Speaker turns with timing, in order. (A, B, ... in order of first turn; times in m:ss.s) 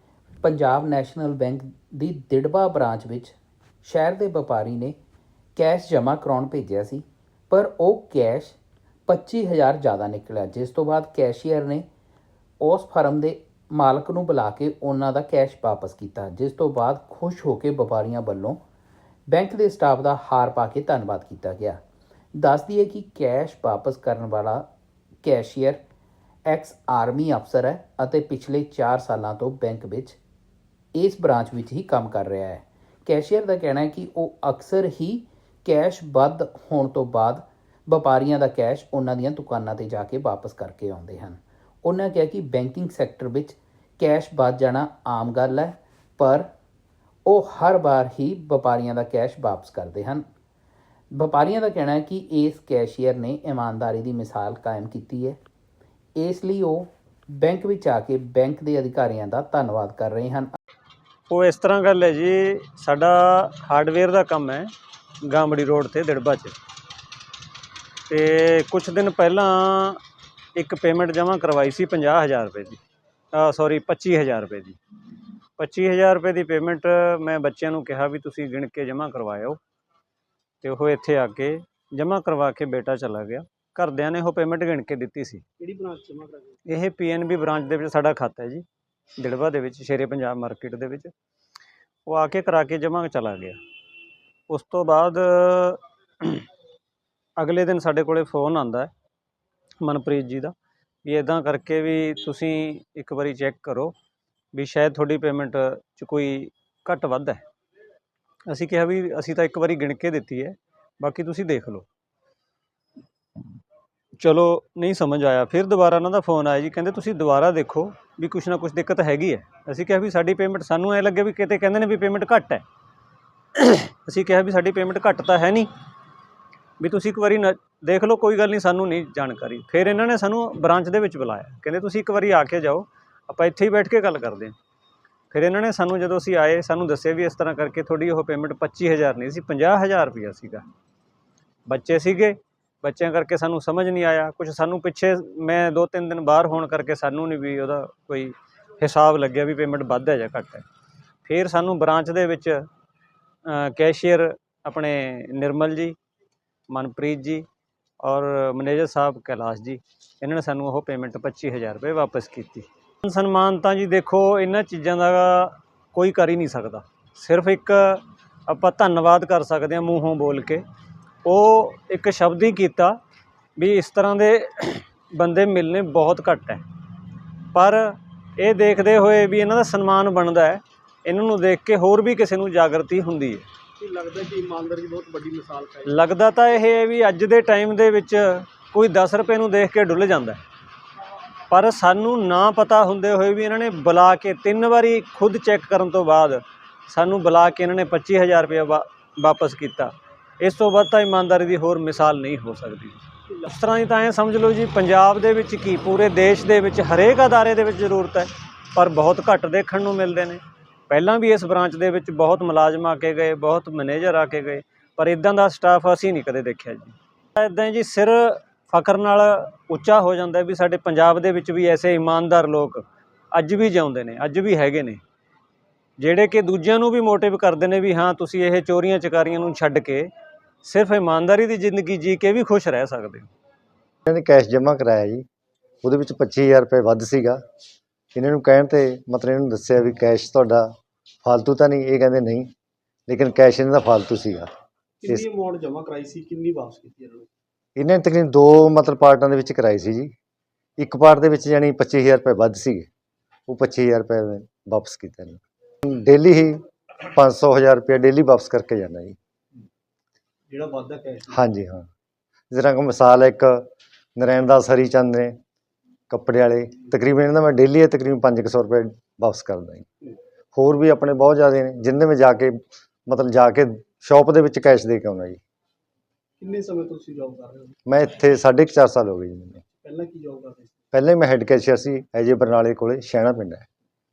0:00.4-0:05.0 A
0:05.6-0:11.8 A
0:12.6-0:18.6 A
0:19.3-0:21.8 A
0:22.4-0:24.6 A
0:25.2-0:25.8 A
0:26.5-0:30.2 A
0:31.0-0:46.5 A
0:47.3-0:50.3 A
0:51.1-0:55.4 A
0:56.2-1:00.5 A
1:01.3-1:04.7 B
1:05.2-1:06.6 B
1:08.1-1:10.0 B
1:10.6-1:12.8 B
1:13.3-1:14.8 B
1:15.6-1:19.6 B
1:20.6-1:25.4 B
1:25.6-1:26.6 C
1:26.7-1:28.6 B
1:29.2-1:31.1 B
1:32.1-1:33.6 B
1:34.5-1:36.4 B
1:37.4-1:38.9 B
1:39.8-1:40.5 B
1:41.0-1:43.9 B
1:44.6-1:47.4 B
1:48.5-1:51.9 B
1:54.2-2:02.6 B
2:03.6-2:05.7 B
2:06.8-2:14.6 B
2:15.3-2:20.6 B
2:21.7-2:30.6 B
2:31.2-2:32.6 B
2:33.5-2:36.0 B
2:36.7-2:37.5 B
2:38.0-2:50.6 B
2:51.2-2:53.0 B
2:53.6-2:56.6 B
2:57.5-3:03.5 B
3:03.8-3:06.0 C
3:05.9-3:10.4 B
3:11.5-3:42.8 B
3:43.4-3:45.0 B
3:46.0-3:50.1 B
3:50.6-3:53.3 B
3:54.1-3:55.2 D
3:55.8-3:57.4 D
3:58.2-4:00.7 D
4:01.2-4:02.5 D
4:03.1-4:04.5 D
4:05.0-4:07.3 C
4:07.8-4:10.1 D
4:10.8-4:12.9 D
4:13.5-4:19.2 D
4:20.5-4:21.4 C
4:21.3-4:21.9 D
4:22.5-4:25.4 D
4:26.1-4:29.9 D
4:30.5-4:35.4 D
4:36.4-4:37.8 C
4:37.9-4:39.6 D
4:39.8-4:40.8 C
4:40.9-4:43.7 D